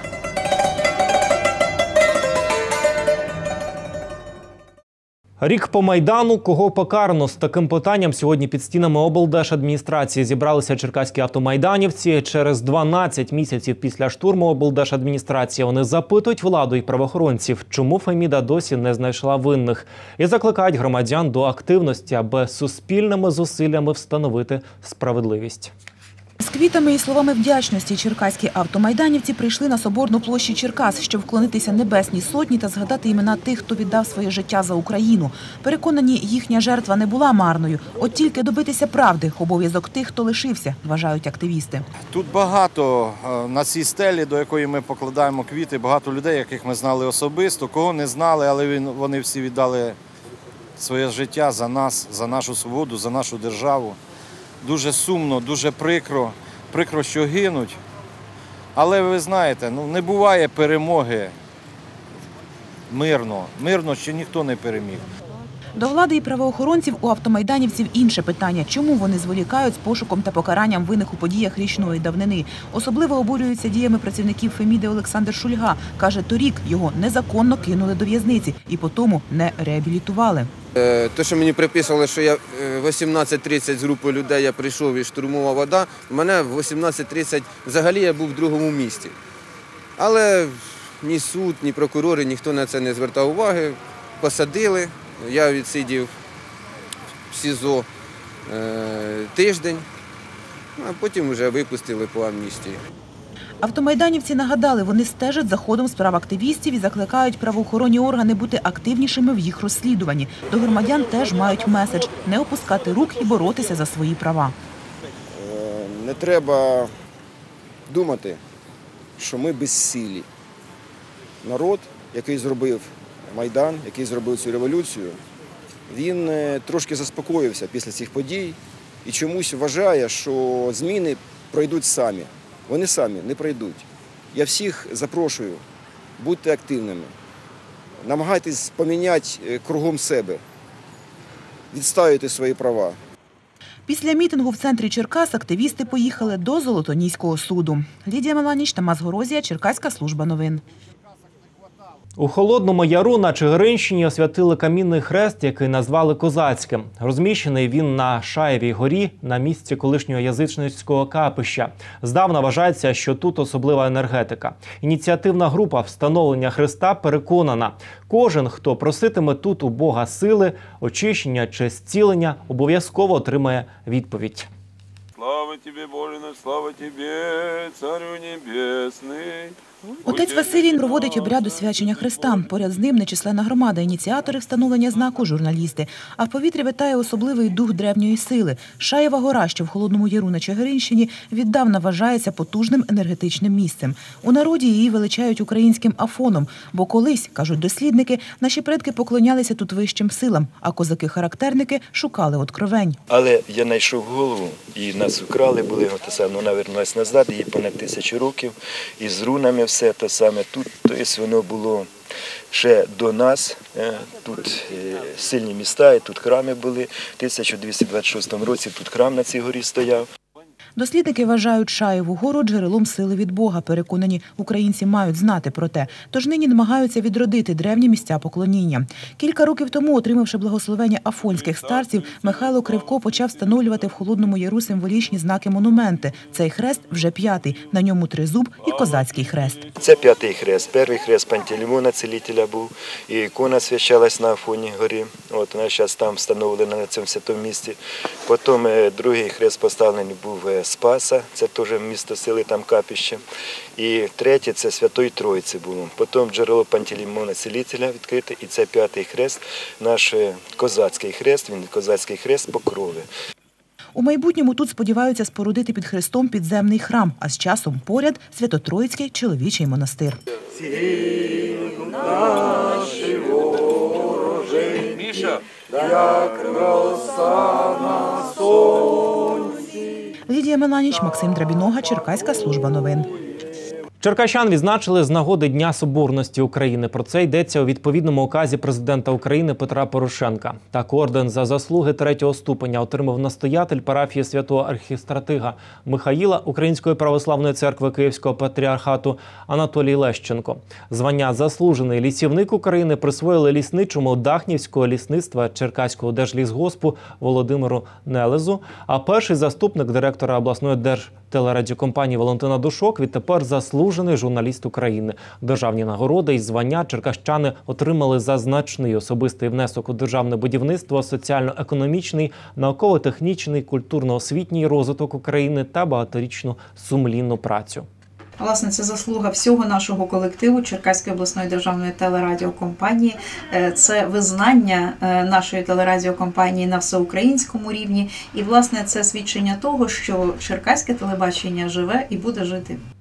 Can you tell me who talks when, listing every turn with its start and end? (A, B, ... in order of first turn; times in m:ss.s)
0:05.4-0:25.7 A
0:26.4-0:41.9 B
0:42.1-0:49.9 C
0:50.8-0:54.0 C
0:54.6-0:57.8 C
0:58.8-1:01.3 C
1:02.9-1:05.0 C
1:05.8-1:20.5 B
1:20.8-1:29.1 D
1:30.0-1:36.1 D
1:37.3-1:37.9 D
1:38.5-1:39.8 D
1:40.8-1:42.8 D
1:43.6-1:54.6 B
1:55.3-1:56.9 E
1:57.9-1:58.4 E
1:59.2-2:00.3 E
2:01.4-2:05.2 E
2:05.9-2:15.6 E
2:16.2-2:17.1 E
2:18.0-2:20.4 E
2:21.7-2:23.0 E
2:23.9-2:30.6 B
2:32.2-2:54.5 A
2:55.2-2:59.6 F
3:00.0-3:23.0 B
3:23.1-3:31.9 G
3:32.5-3:40.1 G
3:40.8-3:59.7 B
3:59.8-4:13.2 G
4:13.8-4:23.1 G
4:24.0-4:30.2 B
4:40.3-4:43.1 B
4:44.0-5:27.9 A
5:28.4-5:42.8 H